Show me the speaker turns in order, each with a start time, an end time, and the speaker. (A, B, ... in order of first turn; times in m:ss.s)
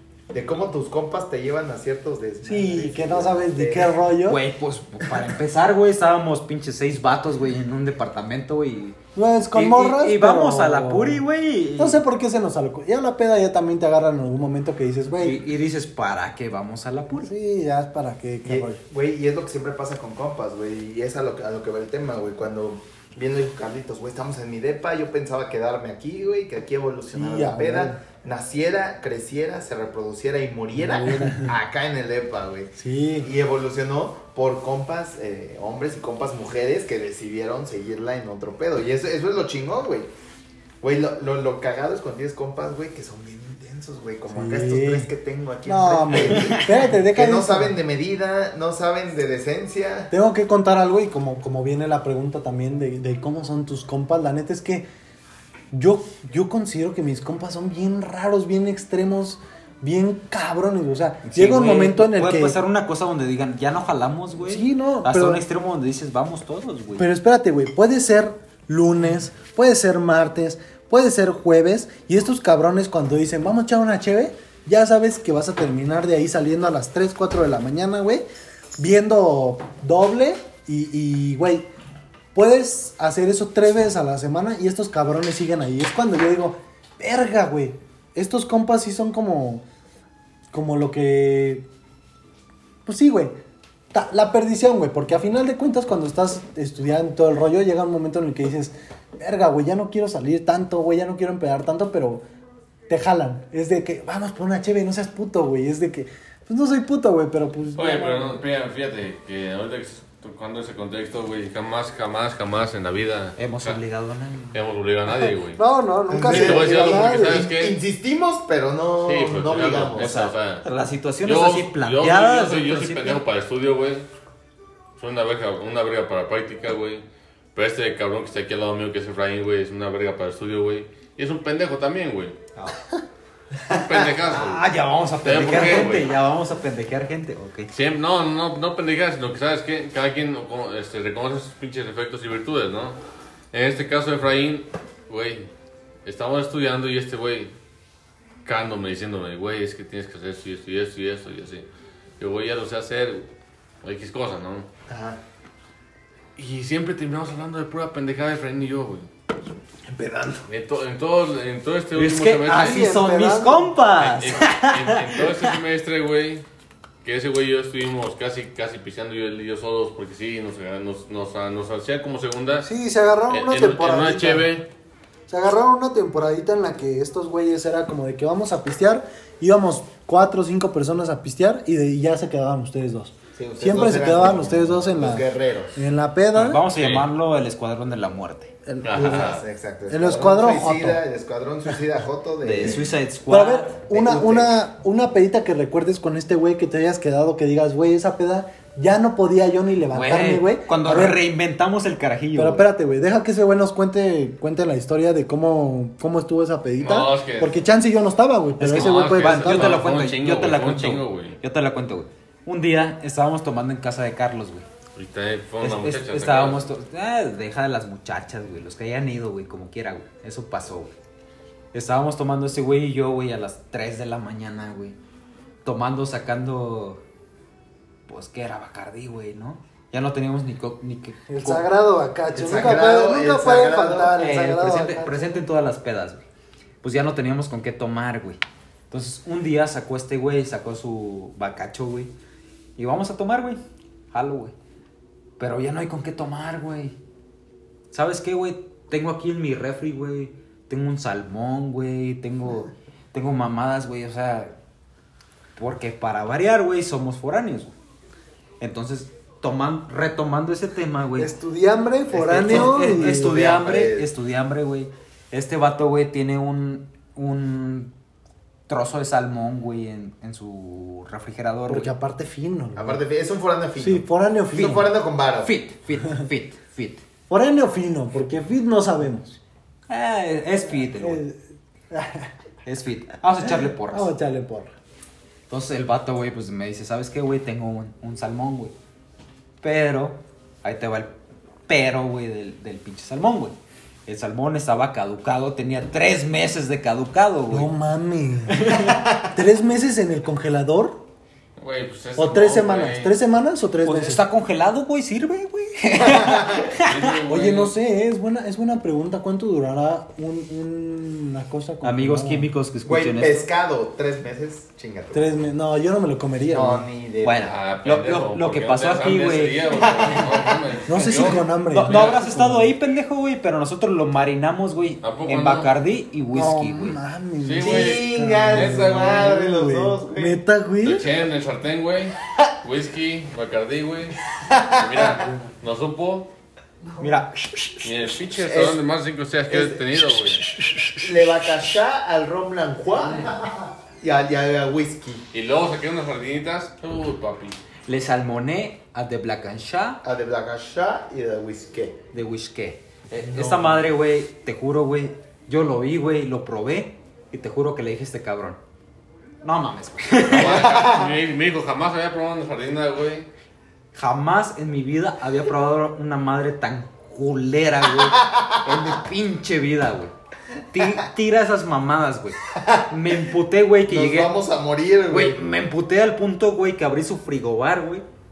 0:00.3-0:04.0 A
0:02.4-0:04.4 B
0:04.2-0:09.0 C
0:09.1-0:11.2 B
0:09.5-0:12.0 C
0:11.8-0:15.4 B
0:15.2-0:17.3 C
0:17.2-0:18.8 B
0:18.4-0:40.1 A
0:27.1-0:28.0 B
0:30.8-0:31.5 B
0:32.8-0:33.3 B
0:40.8-0:50.1 A
0:44.3-0:45.1 B
0:45.6-0:47.8 B
0:46.3-0:46.8 C
0:50.1-0:54.8 B
0:55.7-1:02.6 B
1:01.2-1:07.0 C
1:04.5-1:05.4 B
1:07.0-1:18.2 B
1:18.8-1:21.7 B
1:22.3-1:29.6 B
1:30.5-1:31.6 B
1:32.8-1:33.3 B
1:33.9-1:42.2 B
1:42.9-1:48.4 B
1:47.7-1:53.8 D
1:53.4-1:54.6 C
1:54.5-1:55.6 D
1:55.6-1:57.5 B
1:56.1-2:00.2 A
1:56.2-1:57.8 D
1:59.0-2:00.6 D
2:00.0-2:03.2 C
2:01.2-2:04.1 D
2:05.0-2:07.0 D
2:07.5-2:12.4 D
2:13.7-2:14.1 A
2:13.7-2:14.7 D
2:14.3-2:17.7 C
2:15.2-2:16.1 D
2:17.7-2:23.0 D
2:23.5-2:25.5 D
2:26.0-2:27.5 D
2:28.4-2:31.6 D
2:32.2-2:33.3 D
2:33.8-2:34.7 D
2:34.9-2:35.2 A
2:36.4-2:39.1 D
2:39.9-2:40.4 A
2:40.5-2:42.9 D
2:41.9-2:45.6 C
2:42.5-2:43.7 B
2:44.0-2:46.4 D
2:47.0-2:52.7 D
2:52.6-2:54.5 B
2:53.3-2:54.6 D
2:55.3-3:06.6 B
3:03.4-3:05.8 A
3:06.3-3:08.5 C
3:06.7-3:07.0 D
3:08.6-3:09.3 B
3:08.8-3:09.4 D
3:08.9-3:12.9 A
3:09.9-3:11.0 B
3:12.4-3:13.8 C
3:13.3-3:21.2 B
3:13.9-3:14.6 A
3:19.9-3:22.6 C
3:22.3-3:29.8 B
3:26.8-3:27.6 D
3:28.6-3:34.7 C
3:28.7-3:31.4 D
3:34.9-3:36.7 D
3:35.6-3:40.9 C
3:41.7-3:45.0 C
3:45.6-3:47.0 C
3:48.1-3:51.6 C
3:51.3-3:55.4 B
3:52.3-3:54.2 A
3:54.2-3:56.2 C
3:56.8-4:02.1 C
4:02.8-4:03.6 C
4:04.1-4:04.5 C
4:05.4-4:07.0 C
4:07.9-4:14.5 C
4:15.6-4:17.7 C
4:18.6-4:21.3 C
4:21.2-4:23.4 B
4:22.1-4:24.1 A
4:22.1-4:27.9 C
4:28.7-4:31.9 C
4:31.7-4:33.0 B
4:32.7-4:35.5 A
4:33.8-4:34.9 B
4:35.4-4:37.0 C
4:37.3-4:39.4 B
4:39.9-4:41.2 C
4:40.8-4:41.4 B
4:41.9-4:42.3 B
4:42.6-4:44.1 C
4:43.4-4:44.7 B
4:45.5-4:48.7 C
4:49.6-4:51.1 C
4:51.7-4:57.7 C
4:57.5-5:01.0 B
4:58.5-4:59.0 C
4:58.8-4:59.1 A
5:01.6-5:03.1 D
5:02.2-5:04.2 B
5:03.8-5:07.1 C
5:06.0-5:06.8 A
5:06.7-5:07.7 D
5:07.3-5:12.5 B
5:11.8-5:13.4 C
5:12.8-5:15.4 A
5:15.1-5:16.8 B
5:16.5-5:17.6 A
5:17.2-5:20.1 C
5:17.4-5:22.2 D
5:19.7-5:20.6 A
5:20.9-5:22.7 B
5:21.0-5:27.0 C
5:25.0-5:25.7 D
5:26.3-5:31.0 B
5:27.4-5:29.2 D
5:27.6-5:30.4 A
5:30.8-5:36.3 D
5:34.4-5:35.3 A
5:37.0-5:37.9 C
5:37.8-5:40.4 D
5:38.3-5:38.8 A
5:39.5-5:39.8 A
5:41.0-5:45.2 A
5:45.3-5:47.6 D
5:47.9-5:50.0 C
5:50.0-5:52.0 A
5:52.1-5:58.6 C
5:53.1-5:53.9 A
5:59.4-6:00.8 C
6:00.3-6:03.3 D
6:00.4-6:01.1 A
6:03.9-6:10.1 C
6:08.1-6:08.5 A
6:10.7-6:14.3 C
6:12.5-6:12.9 A
6:13.9-6:15.4 A
6:15.1-6:18.0 C